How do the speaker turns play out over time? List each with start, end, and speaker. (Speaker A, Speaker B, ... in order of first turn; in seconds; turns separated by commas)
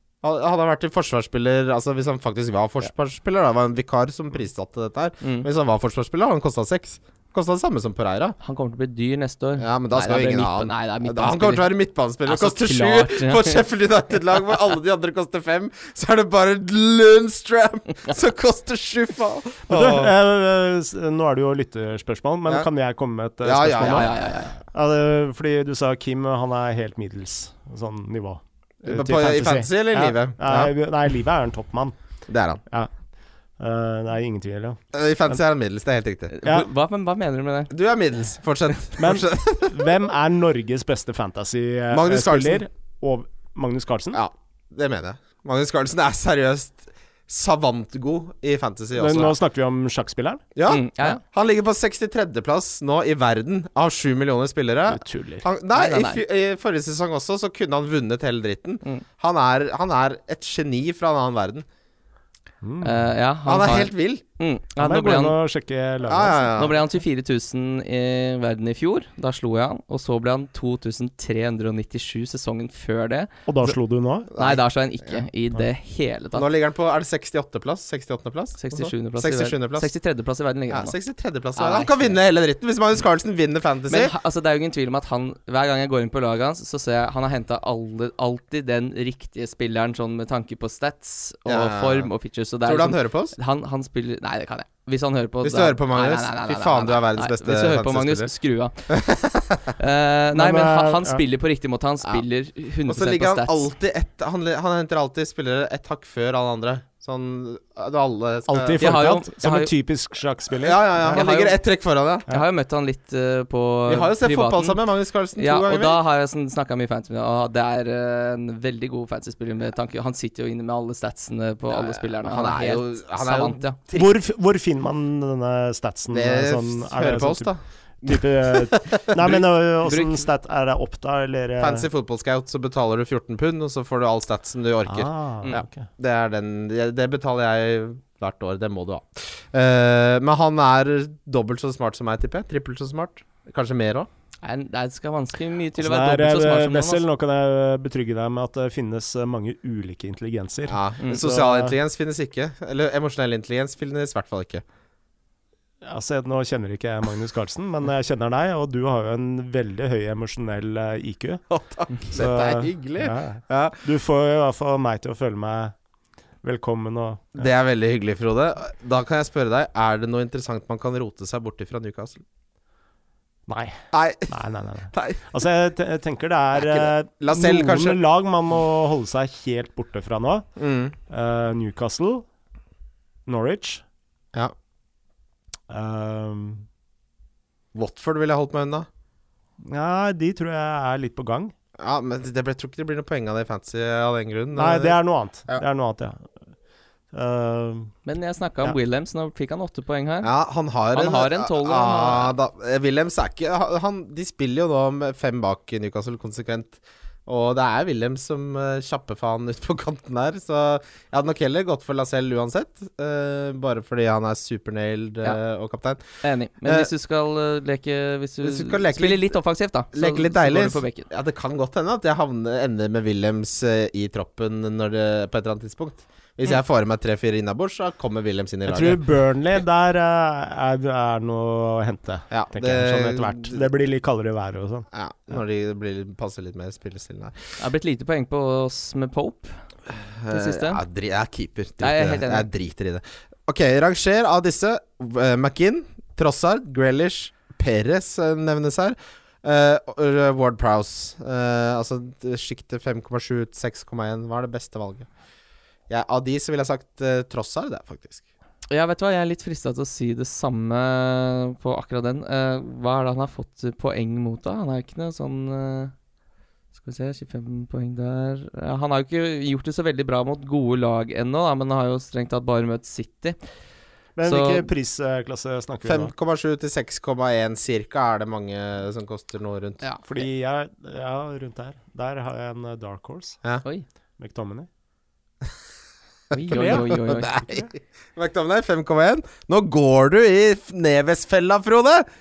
Speaker A: 0.2-8.4, Speaker B: 5.2-5.5, Speaker B: 8.4-11.7, Speaker A: 9.6-20.1, Speaker B: 12.2-13.7, Speaker C: 19.7-24.1, Speaker A: 23.4-24.6, Speaker B: 23.8-24.6, Speaker C: 24.7-31.9, Speaker A: 28.8-30.7, Speaker A: 32.3-32.6, Speaker C: 33.6-34.8, Speaker A: 34.9-36.4, Speaker B: 36.3-37.7, Speaker A: 37.7-39.9, Speaker C: 39.0-44.2, Speaker A: 41.9-42.6, Speaker A: 44.1-49.3, Speaker C: 48.9-50.4, Speaker A: 50.5-61.6, Speaker B: 50.7-51.2, Speaker C: 54.9-55.5, Speaker B: 55.7-56.2, Speaker C: 62.6-63.0, Speaker B: 62.8-65.3, Speaker A: 63.5-64.2, Speaker C: 64.8-66.5, Speaker A: 66.0-66.8, Speaker B: 66.6-73.3, Speaker C: 73.5-74.3, Speaker A: 74.3-75.2, Speaker B: 74.4-76.5, Speaker A: 76.3-79.9, Speaker B: 78.6-80.9, Speaker A: 80.7-84.1, Speaker B: 81.5-82.2, Speaker B: 83.9-103.7, Speaker A: 91.5-92.1, Speaker A: 92.6-93.4, Speaker A: 95.4-98.3, Speaker A: 98.9-99.7, Speaker C: 100.3-101.2, Speaker A: 102.9-108.9, Speaker C: 108.5-111.2, Speaker B: 108.8-109.7, Speaker A: 110.6-112.2, Speaker B: 111.0-111.6, Speaker B: 112.3-114.8, Speaker A: 113.9-116.0, Speaker B: 115.4-123.8, Speaker A: 121.7-124.1, Speaker C: 123.9-131.9, Speaker A: 126.1-129.4, Speaker B: 129.8-130.2, Speaker A: 131.6-144.1, Speaker C: 134.9-135.9, Speaker B: 144.4-147.0, Speaker C: 145.8-151.7, Speaker A: 150.7-154.6, Speaker C: 155.8-161.4, Speaker A: 161.5-163.8, Speaker C: 162.1-165.8, Speaker C: 166.4-167.4, Speaker A: 167.3-172.2, Speaker C: 173.5-180.5, Speaker A: 173.9-174.3, Speaker A: 174.9-175.2, Speaker A: 176.5-178.0, Speaker A: 180.6-180.9, Speaker C: 181.1-182.2, Speaker C: 183.2-183.8, Speaker C: 185.7-186.7, Speaker A: 187.7-188.9, Speaker C: 189.6-191.5, Speaker A: 191.8-195.6, Speaker C: 194.5-196.4, Speaker C: 197.1-197.9, Speaker B: 198.1-200.3, Speaker A: 200.2-216.0, Speaker B: 200.9-202.3, Speaker B: 216.2-221.1, Speaker A: 216.6-216.9, Speaker A: 218.4-219.4, Speaker A: 219.9-229.0, Speaker C: 228.7-234.9, Speaker A: 232.3-233.6, Speaker A: 234.9-237.6, Speaker B: 237.6-239.7, Speaker A: 239.9-255.1, Speaker B: 240.3-240.8, Speaker B: 241.8-242.5, Speaker A: 255.9-258.2, Speaker B: 258.7-265.9, Speaker B: 266.8-273.4, Speaker C: 274.1-276.1, Speaker B: 274.2-274.7, Speaker A: 275.8-279.8, Speaker C: 280.0-283.4, Speaker C: 284.2-284.7, Speaker B: 286.3-287.3, Speaker A: 286.3-292.1, Speaker C: 286.5-286.9